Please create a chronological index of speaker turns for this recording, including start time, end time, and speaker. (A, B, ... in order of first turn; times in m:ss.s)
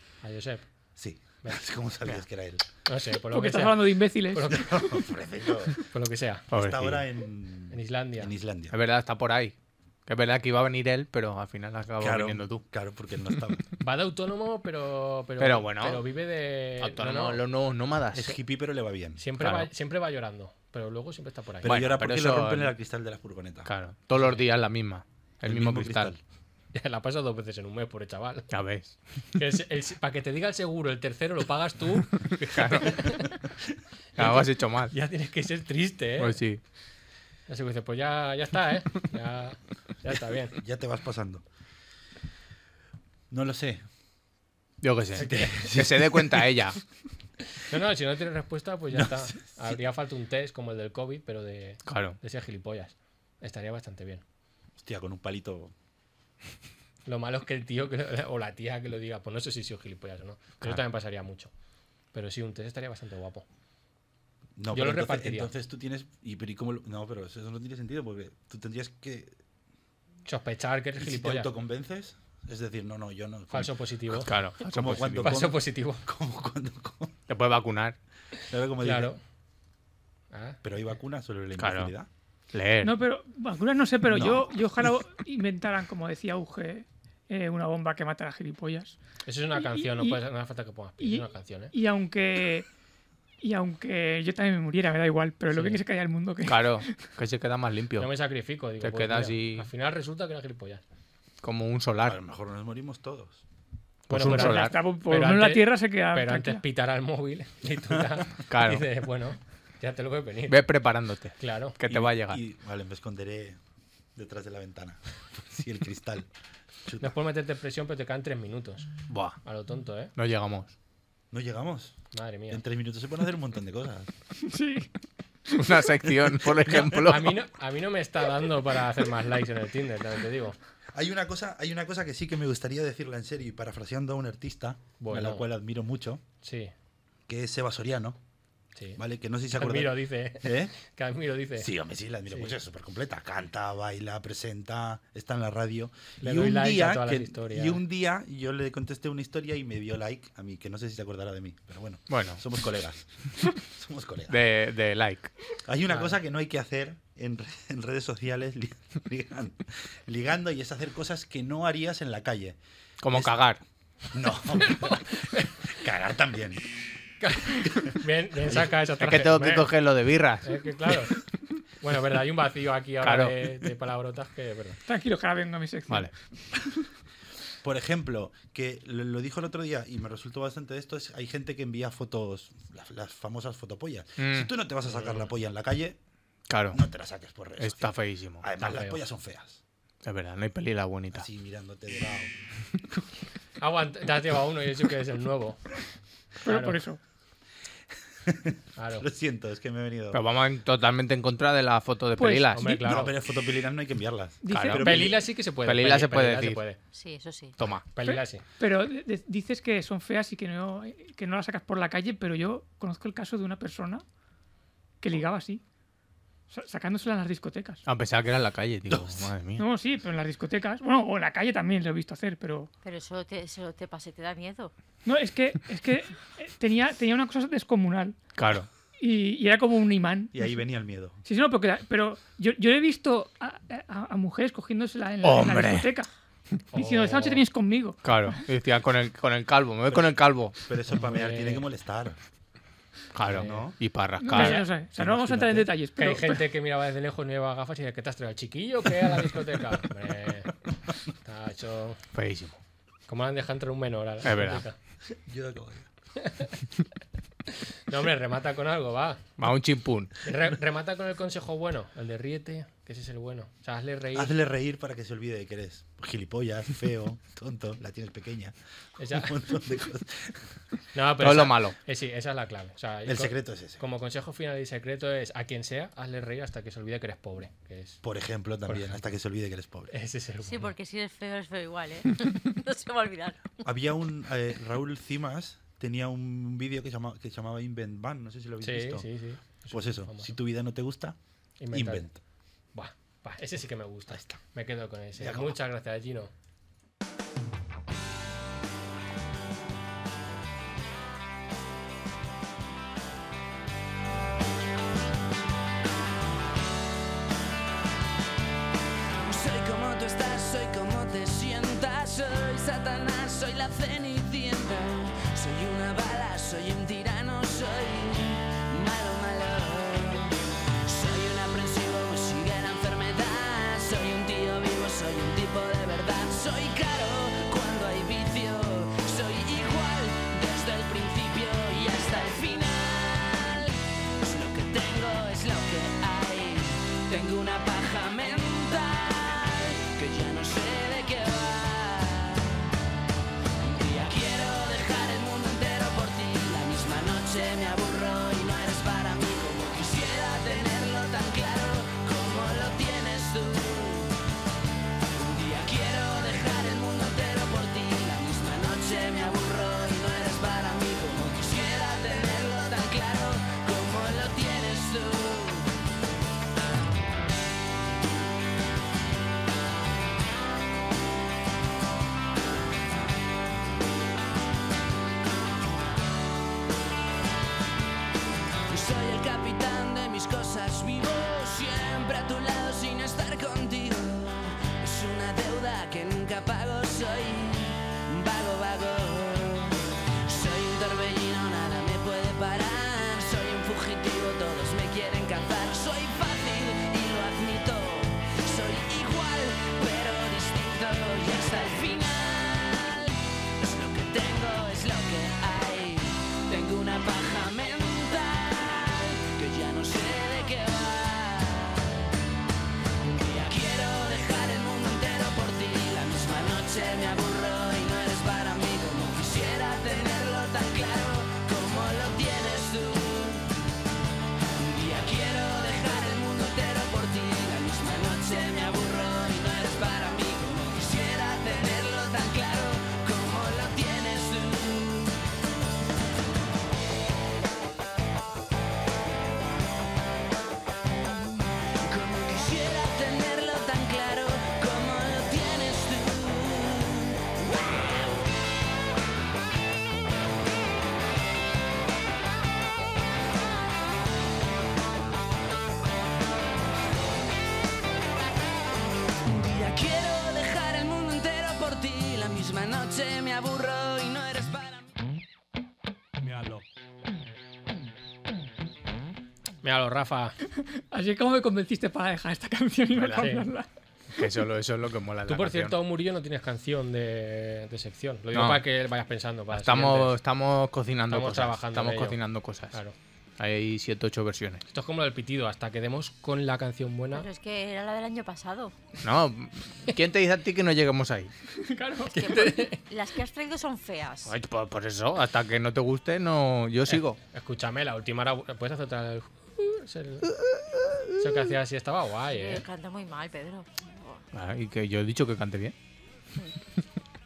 0:00.2-0:00.6 A
0:01.0-0:02.6 B
0:02.8-0:04.8 A
0:03.3-0:04.6 C
0:04.5-0:05.8 B
0:05.9-0:06.5 A
0:06.5-0:07.0 D
0:06.5-0:08.8 B
0:07.7-0:08.3 A
0:08.7-0:09.5 D
0:10.0-0:12.6 D
0:12.0-0:13.7 B
0:13.8-0:17.4 A
0:15.4-0:16.1 D
0:16.8-0:18.4 D
0:18.1-0:19.2 B
0:19.2-0:21.7 A
0:19.4-0:19.7 D
0:21.6-0:23.7 B
0:21.6-0:22.7 D
0:23.6-0:26.1 D
0:24.2-0:24.4 A
0:25.4-0:26.2 B
0:26.7-0:28.5 A
0:28.5-0:29.0 D
0:29.3-0:33.3 A
0:32.4-0:33.2 D
0:34.2-0:34.9 D
0:34.9-0:36.4 A
0:36.2-0:36.6 D
0:37.5-0:40.6 A
0:40.5-0:41.4 B
0:43.3-0:43.8 B
0:44.8-0:46.8 D
0:45.1-0:45.6 A
0:45.2-0:46.5 B
0:47.6-0:54.2 A
0:48.9-0:49.8 B
0:51.8-0:52.2 D
0:54.8-0:55.7 B
0:57.0-1:01.5 A
1:02.1-1:03.4 A
1:04.6-1:09.4 B
1:04.7-1:05.5 A
1:10.2-1:11.5 A
1:11.0-1:17.2 B
1:13.5-1:14.4 A
1:14.2-1:15.3 D
1:15.2-1:16.0 A
1:17.3-1:18.0 D
1:18.5-1:19.1 B
1:18.8-1:19.2 A
1:20.3-1:20.6 A
1:20.6-1:22.1 B
1:21.6-1:21.9 D
1:22.5-1:23.0 D
1:22.8-1:29.0 C
1:24.0-1:24.9 B
1:29.2-1:31.7 A
1:29.5-1:30.2 C
1:31.0-1:32.7 C
1:33.4-1:37.1 C
1:35.5-1:35.8 A
1:36.4-1:38.1 D
1:38.0-1:40.8 A
1:38.8-1:39.7 D
1:41.4-1:42.2 D
1:42.0-1:43.4 B
1:44.1-1:44.8 D
1:44.1-1:50.6 A
1:44.1-1:46.6 C
1:48.5-1:48.9 D
1:50.5-1:52.4 D
1:51.4-1:51.8 A
1:51.9-1:53.6 B
1:54.1-1:56.3 B
1:56.8-1:57.1 B
1:57.0-1:58.9 A
1:59.1-1:59.4 D
1:59.4-2:00.1 A
2:00.2-2:00.7 D
2:01.3-2:02.0 B
2:02.1-2:02.6 A
2:02.5-2:04.1 B
2:04.4-2:04.9 C
2:05.5-2:07.4 D
2:06.2-2:07.1 B
2:07.0-2:10.6 A
2:10.9-2:16.2 B
2:15.0-2:15.4 A
2:16.4-2:16.7 A
2:17.3-2:18.2 B
2:18.8-2:21.7 A
2:19.0-2:20.7 B
2:21.6-2:34.4 B
2:26.2-2:27.8 A
2:32.1-2:32.4 D
2:34.3-2:35.3 D
2:35.6-2:43.4 B
2:43.0-2:43.6 D
2:44.1-2:46.6 B
2:44.8-2:45.5 A
2:47.2-2:49.7 A
2:48.9-2:51.0 D
2:50.4-2:51.1 A
2:51.8-2:54.8 A
2:53.0-2:53.4 D
2:54.9-2:56.8 C
2:57.6-3:06.0 B
3:04.2-3:04.5 D
3:04.9-3:05.2 A
3:06.5-3:06.8 D
3:06.7-3:09.6 B
3:07.6-3:08.4 D
3:08.6-3:09.0 A
3:10.0-3:11.2 D
3:11.1-3:12.3 B
3:13.6-3:15.7 A
3:16.4-3:17.0 C
3:16.4-3:16.8 A
3:18.2-3:20.2 B
3:18.8-3:19.1 A
3:20.1-3:22.6 D
3:22.2-3:22.8 C
3:22.5-3:23.1 A
3:22.8-3:25.2 B
3:24.4-3:24.8 C
3:24.5-3:26.6 D
3:24.8-3:26.8 A
3:26.9-3:27.5 E
3:27.6-3:27.8 D
3:27.9-3:28.4 A
3:28.0-3:34.0 C
3:35.0-3:35.6 C
3:36.5-3:37.8 C
3:37.8-3:39.6 D
3:38.9-3:39.3 B
3:39.6-3:42.7 C
3:42.8-3:44.7 E
3:45.0-3:48.2 C
3:48.4-3:48.7 D
3:49.0-3:50.6 C
3:50.3-3:51.2 B
3:51.2-3:56.1 C
3:55.2-3:55.9 D
3:56.7-3:57.4 A
3:56.7-3:58.4 C
3:58.0-4:00.5 D
3:59.9-4:02.2 B
4:00.9-4:01.6 A
4:03.1-4:04.7 D
4:03.3-4:03.6 A
4:03.3-4:03.8 B
4:04.2-4:06.4 C
4:04.3-4:04.6 A
4:04.9-4:05.7 B
4:06.0-4:10.6 A
4:11.2-4:12.0 A
4:12.1-4:12.6 D
4:13.1-4:14.8 A
4:14.2-4:14.6 D
4:15.2-4:15.9 B
4:16.2-4:16.5 A
4:17.8-4:19.4 A
4:19.4-4:20.2 D
4:20.2-4:24.3 A
4:24.1-4:30.4 B
4:29.0-4:29.4 A
4:30.9-4:38.0 A
4:31.2-4:31.8 D
4:33.0-4:33.8 B
4:38.0-4:39.9 B
4:39.9-4:40.7 A
4:40.4-4:43.6 E
4:43.6-4:49.1 B
4:48.6-4:50.3 A
4:49.7-4:51.2 B
4:51.6-4:52.1 A
4:51.7-4:52.2 B
4:52.7-4:56.3 A
4:54.1-4:54.4 B
4:55.2-4:55.6 B
5:09.2-5:42.7 F
5:43.6-5:54.1 F
5:55.1-6:05.7 F
6:18.7-6:52.1 F
6:53.0-7:03.5 F
7:04.6-7:15.2 F
7:21.8-7:27.9 F
7:39.2-7:45.0 F
7:46.2-7:46.6 B
7:49.6-7:50.4 A
7:50.9-7:53.7 C
7:52.9-7:53.2 D
7:53.2-7:53.5 A
7:54.1-7:55.7 D
7:55.2-8:00.1 A
7:58.3-7:58.6 D
7:59.5-8:02.8 D
8:01.1-8:02.2 A
8:03.4-8:04.6 D
8:04.7-8:07.3 A
8:07.1-8:08.7 E
8:09.0-8:11.3 D
8:11.6-8:12.2 C
8:12.1-8:12.8 A
8:12.2-8:14.4 E
8:14.2-8:17.2 D
8:16.9-8:20.3 A
8:20.5-8:21.0 D
8:21.2-8:22.6 A
8:22.3-8:24.2 E
8:24.3-8:25.7 D